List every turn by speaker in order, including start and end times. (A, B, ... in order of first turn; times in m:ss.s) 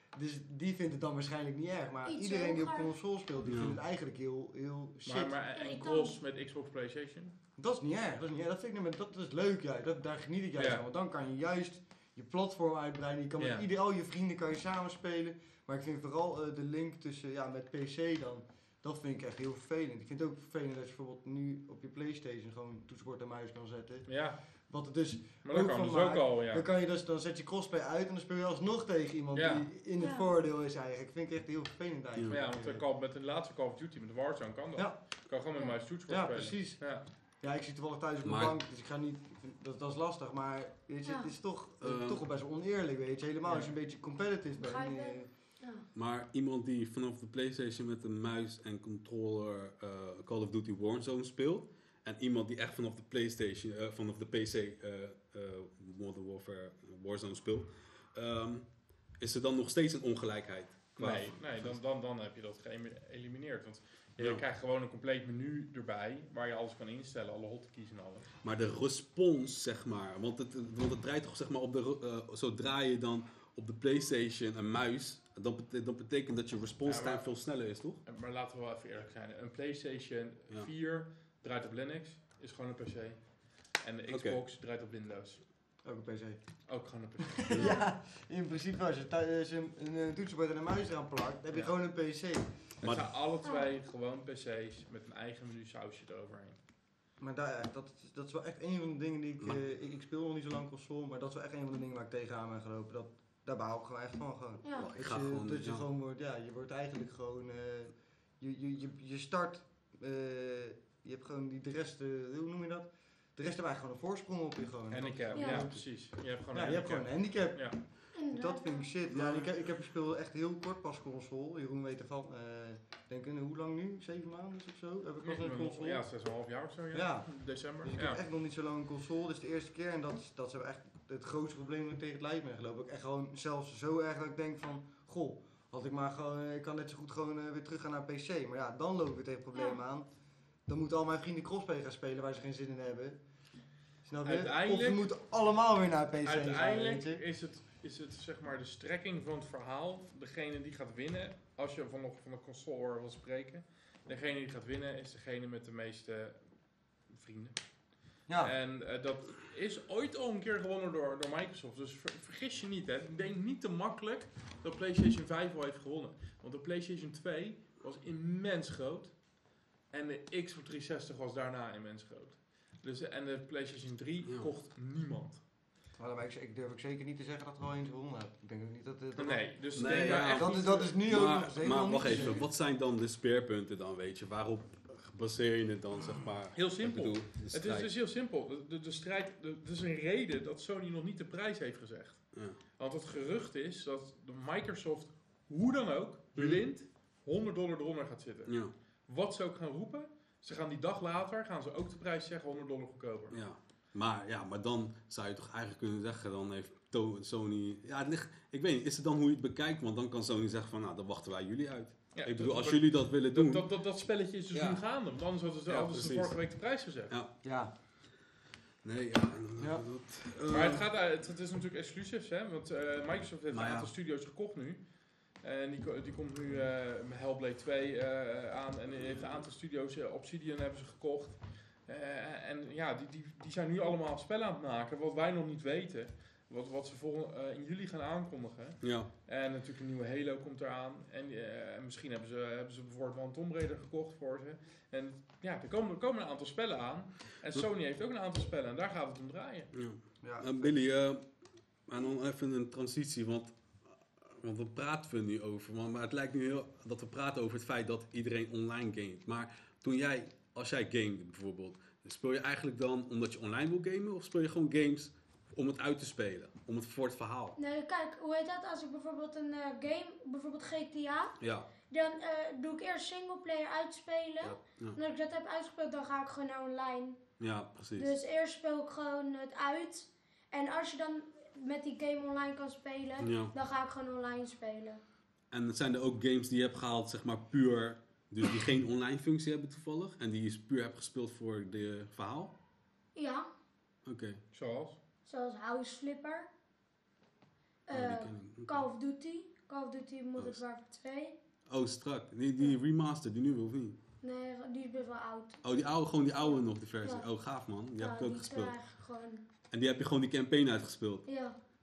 0:00.1-0:05.4 A
0:02.1-0:02.9 B
0:03.4-0:03.8 C
0:05.0-0:07.4 D
0:05.6-0:06.2 B
0:07.6-0:32.8 A
0:10.6-0:10.8 D
0:13.4-0:13.6 D
0:24.1-0:24.4 D
0:25.4-0:26.6 D
0:29.3-0:29.7 D
0:30.0-0:30.3 B
0:32.3-0:37.1 D
0:34.8-0:35.3 A
0:36.1-0:45.3 A
0:38.2-0:38.6 C
0:41.0-0:41.3 B
0:41.8-0:42.2 C
0:43.4-0:43.7 D
0:44.6-0:45.9 B
0:46.0-1:01.8 C
1:01.0-1:08.3 D
1:04.2-1:04.4 C
1:08.4-1:18.0 C
1:16.8-1:17.4 D
1:18.0-1:25.4 D
1:24.1-1:24.4 C
1:25.8-1:26.4 A
1:26.7-1:27.7 D
1:27.4-1:32.6 A
1:32.8-1:36.6 D
1:32.8-1:33.1 C
1:37.2-2:06.0 A
1:44.6-1:44.9 B
1:44.8-1:45.8 C
1:54.9-1:57.8 D
1:55.3-1:55.7 B
1:58.2-1:58.9 B
1:59.1-1:59.4 C
2:05.2-2:08.2 D
2:06.9-2:20.1 A
2:19.5-2:19.8 B
2:20.7-2:23.2 A
2:24.0-2:27.2 A
2:24.2-2:25.1 D
2:26.2-2:55.4 D
2:38.3-2:38.5 A
2:54.3-2:54.5 C
2:56.0-3:02.4 A
2:59.2-3:01.0 D
2:59.8-3:07.9 C
3:06.5-3:23.4 D
3:16.4-3:16.6 C
3:18.5-3:18.7 C
3:23.3-3:33.7 C
3:32.1-3:37.1 D
3:34.5-3:34.8 C
3:35.7-3:36.4 C
3:37.4-3:37.7 A
3:38.8-3:40.8 C
3:39.6-3:39.8 A
3:40.5-3:44.8 D
3:43.5-3:43.9 C
3:45.4-4:09.7 D
3:58.8-3:59.1 C
4:09.7-4:11.3 C
4:10.2-4:10.8 A
4:11.9-4:13.6 C
4:14.2-4:27.6 C
4:27.6-4:31.4 B
4:31.4-4:31.7 C
4:31.9-4:37.2 B
4:34.4-4:35.0 C
4:37.4-4:38.1 C
4:38.0-4:45.0 B
4:43.2-4:43.5 C
4:45.5-4:52.5 C
4:53.2-4:53.5 B
4:54.0-4:54.4 C
4:54.5-4:55.0 D
4:55.3-4:56.5 B
4:57.9-5:01.4 B
4:57.9-4:58.8 C
5:01.7-5:04.0 C
5:04.2-5:05.6 B
5:05.6-5:08.8 C
5:07.0-5:07.3 B
5:08.0-5:09.4 B
5:09.7-5:11.3 C
5:11.3-5:11.6 B